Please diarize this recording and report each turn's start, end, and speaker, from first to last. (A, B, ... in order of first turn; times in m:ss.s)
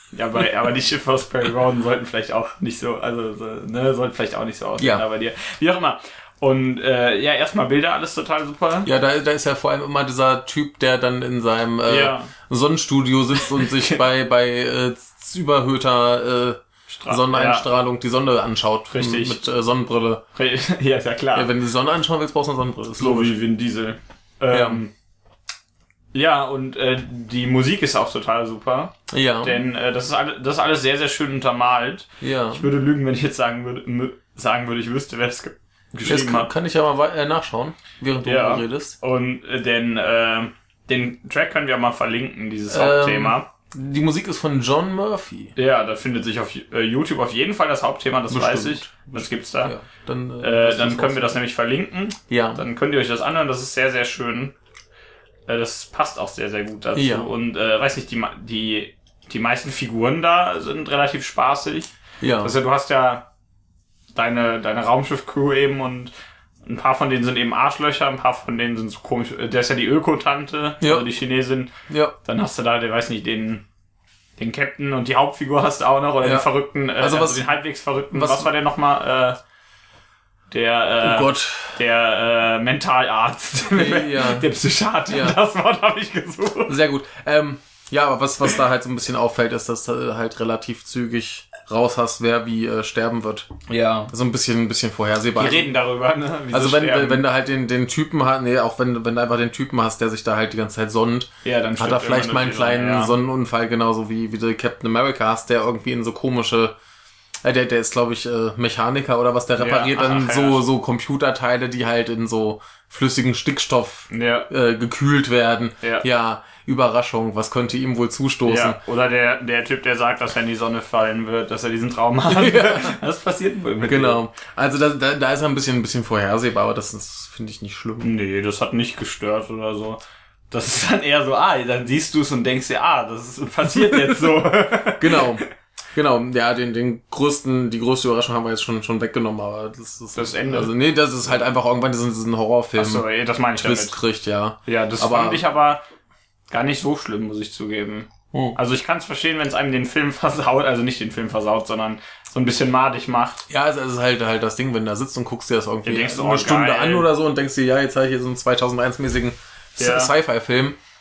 0:00.1-0:08.9 A
0:04.8-0:05.0 B
0:08.8-0:20.2 B
0:11.8-0:12.3 A
0:13.4-0:14.0 A
0:16.9-0:17.7 A
0:18.9-0:19.4 A
0:20.3-0:21.5 A
0:21.3-0:23.4 B
0:23.0-0:24.9 A
0:24.5-0:24.8 B
0:26.1-0:36.5 A
0:29.1-0:29.6 B
0:32.2-0:32.7 B
0:36.0-0:39.0 B
0:38.2-0:43.5 A
0:42.7-0:45.5 B
0:45.6-0:49.7 A
0:48.3-0:49.1 B
0:49.6-0:51.4 B
0:50.4-0:54.5 A
0:52.3-0:52.6 B
0:55.5-1:03.2 A
0:56.9-0:57.3 B
1:02.2-1:02.6 B
1:04.1-1:06.1 A
1:06.6-1:11.7 A
1:10.8-1:11.1 B
1:11.9-1:12.1 B
1:12.2-1:13.6 A
1:14.4-1:19.4 A
1:16.2-1:16.5 B
1:17.0-1:17.5 B
1:18.1-1:18.5 B
1:20.5-1:26.8 A
1:21.0-1:21.8 B
1:23.7-1:24.5 B
1:25.1-1:25.4 B
1:26.7-1:33.5 B
1:33.7-1:34.1 A
1:34.1-1:35.7 B
1:35.3-1:37.2 A
1:36.5-1:46.7 B
1:41.4-1:43.2 A
1:47.4-1:58.8 B
1:49.6-1:50.6 A
1:54.1-1:54.5 A
1:58.4-2:04.2 A
2:02.3-2:03.0 B
2:03.8-2:08.1 B
2:08.0-2:10.0 A
2:10.5-2:15.4 A
2:15.0-2:25.4 B
2:20.1-2:20.7 A
2:22.8-2:24.0 A
2:24.6-2:25.8 A
2:26.5-2:33.4 A
2:28.3-2:28.6 B
2:33.5-2:40.8 B
2:35.8-2:37.1 A
2:39.8-2:40.1 A